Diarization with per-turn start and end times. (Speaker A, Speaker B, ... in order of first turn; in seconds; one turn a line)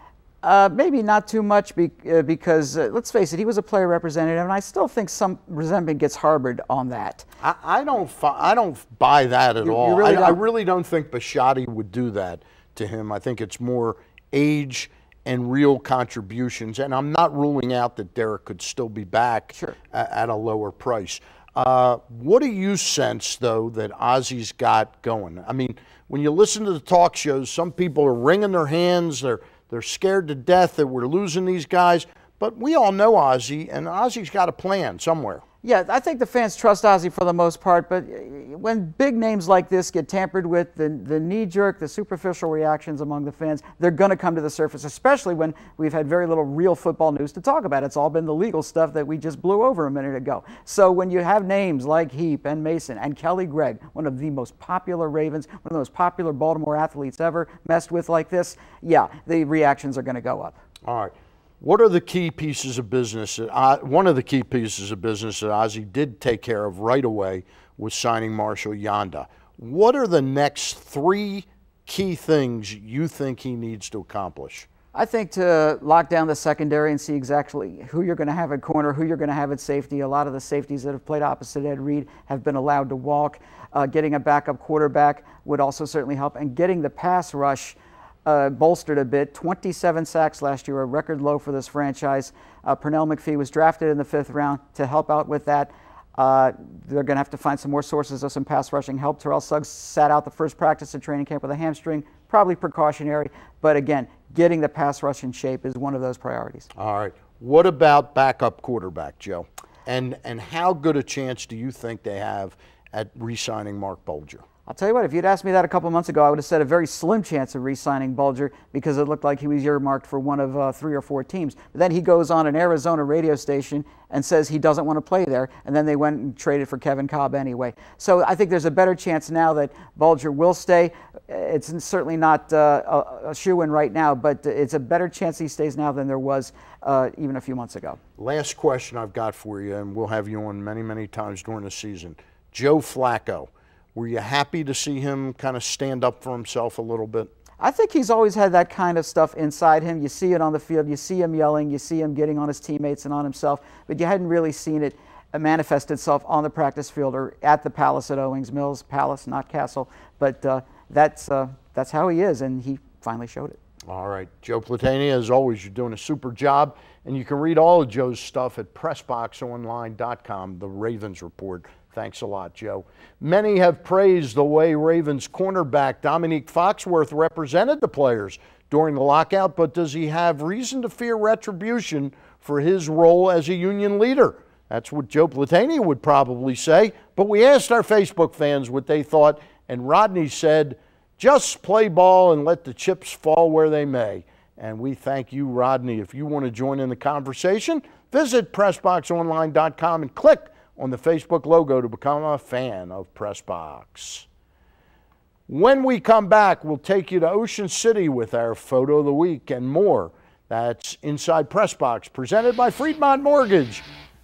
Speaker A: 0.4-7.2
Speaker B: 7.4-35.4
Speaker A: 9.6-10.4
Speaker A: 35.6-60.6
Speaker B: 60.8-74.7
Speaker A: 74.9-106.7
Speaker B: 106.8-114.4
Speaker A: 114.7-138.0
Speaker B: 138.2-147.3
Speaker A: 147.6-163.6
Speaker B: 163.9-204.2
Speaker B: 205.5-213.8